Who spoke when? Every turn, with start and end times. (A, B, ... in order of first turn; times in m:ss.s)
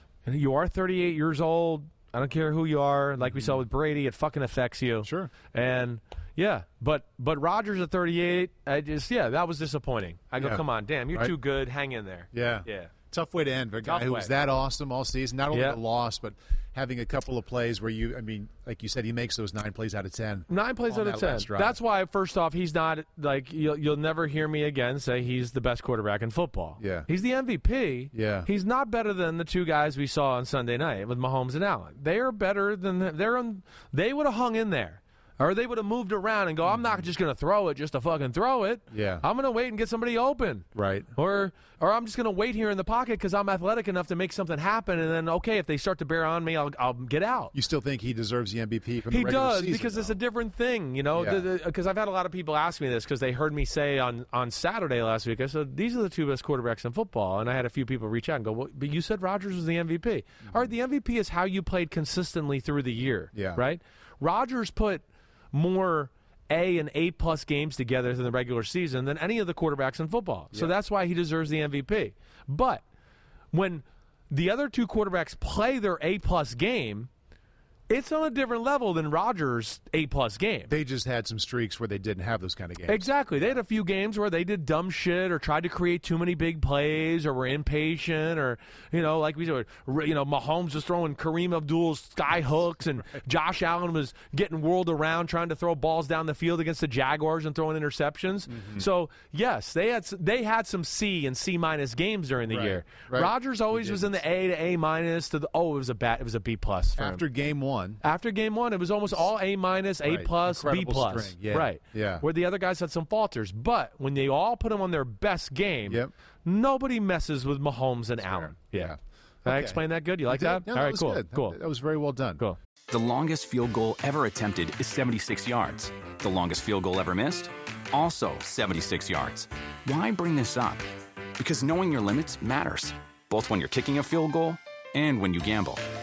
0:00.3-0:12.9 A
0:03.2-0:03.6 B
0:05.0-0:05.3 B
0:10.4-0:11.3 B
0:12.3-0:21.8 B
0:13.8-0:14.3 A
0:15.5-0:15.8 A
0:20.5-0:47.5 A
0:26.8-0:27.1 B
0:28.1-0:28.5 B
0:36.7-0:37.0 B
0:38.9-0:39.2 B
0:40.8-0:41.1 B
0:47.5-0:50.2 B
0:49.1-1:12.8 A
0:51.2-0:51.4 B
1:03.3-1:03.6 B
1:13.5-1:17.1 A
1:17.9-1:20.7 A
1:20.7-1:23.6 B
1:22.9-1:47.2 A
1:38.5-1:38.9 B
1:42.5-1:44.2 B
1:47.0-1:48.0 B
1:48.0-2:01.6 A
1:50.1-1:52.2 B
1:58.3-2:02.4 B
2:02.9-2:10.8 C
2:11.4-2:15.8 C